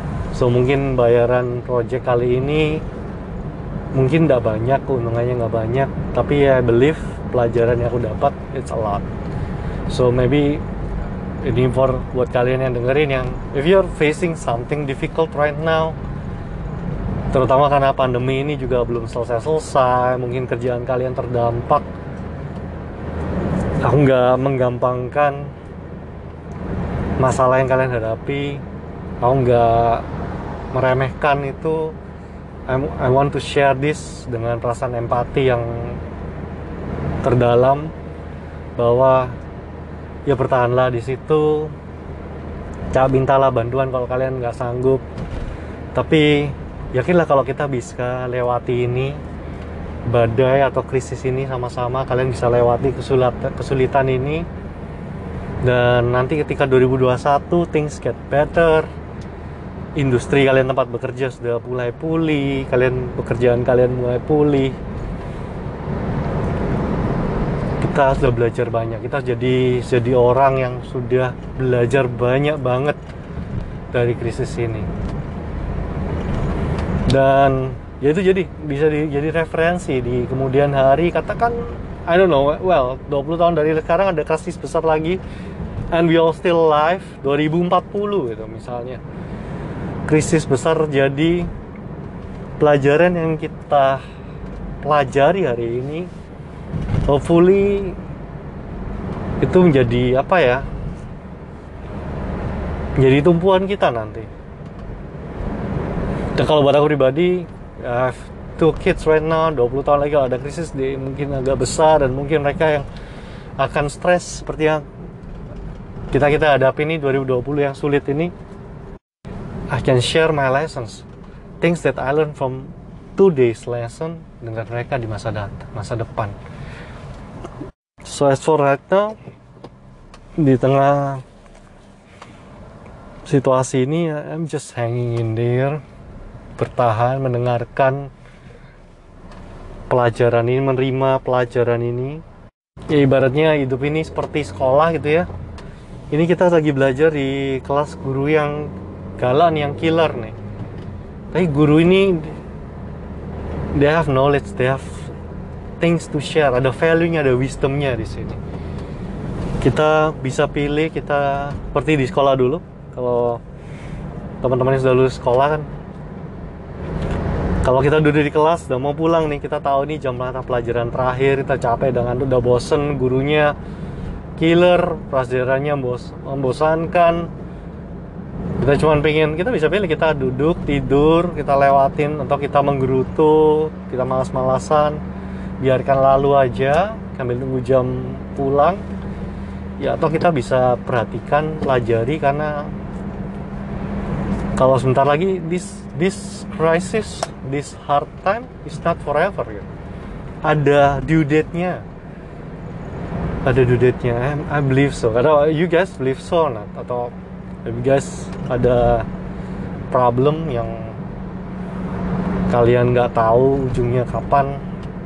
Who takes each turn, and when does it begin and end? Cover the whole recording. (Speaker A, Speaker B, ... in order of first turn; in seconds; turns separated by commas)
Speaker A: 0.3-2.9, Speaker A: 3.9-9.1, Speaker A: 9.9-10.6, Speaker A: 11.4-16.0, Speaker A: 17.3-21.9, Speaker A: 23.8-25.5, Speaker A: 27.2-28.6, Speaker A: 29.2-30.1, Speaker A: 30.7-31.9, Speaker A: 32.7-36.0, Speaker A: 37.2-37.9, Speaker A: 38.8-39.4, Speaker A: 40.3-41.8, Speaker A: 42.9-45.0, Speaker A: 45.9-49.2, Speaker A: 50.1-54.5, Speaker A: 55.6-58.9, Speaker A: 60.0-64.8, Speaker A: 67.8-73.0, Speaker A: 73.9-74.9, Speaker A: 77.1-85.2, Speaker A: 85.9-89.0, Speaker A: 90.1-91.5, Speaker A: 92.6-94.0, Speaker A: 94.8-96.1, Speaker A: 97.1-98.0, Speaker A: 99.4-100.7, Speaker A: 103.0-104.3, Speaker A: 106.3-112.9, Speaker A: 113.6-114.8, Speaker A: 116.1-118.3, Speaker A: 119.7-121.1, Speaker A: 121.6-126.4, Speaker A: 128.0-129.2, Speaker A: 130.4-131.2, Speaker A: 133.3-135.8, Speaker A: 136.6-138.1, Speaker A: 139.9-142.2, Speaker A: 142.9-145.3, Speaker A: 146.1-150.3, Speaker A: 151.3-152.4, Speaker A: 153.7-155.1, Speaker A: 155.8-158.4, Speaker A: 159.6-163.4, Speaker A: 164.4-165.7, Speaker A: 167.6-173.6, Speaker A: 174.4-177.3, Speaker A: 178.6-185.0, Speaker A: 185.6-188.8, Speaker A: 189.8-192.8, Speaker A: 194.6-199.7, Speaker A: 200.4-201.8, Speaker A: 203.4-207.1, Speaker A: 207.7-209.1, Speaker A: 209.9-211.0, Speaker A: 212.5-214.6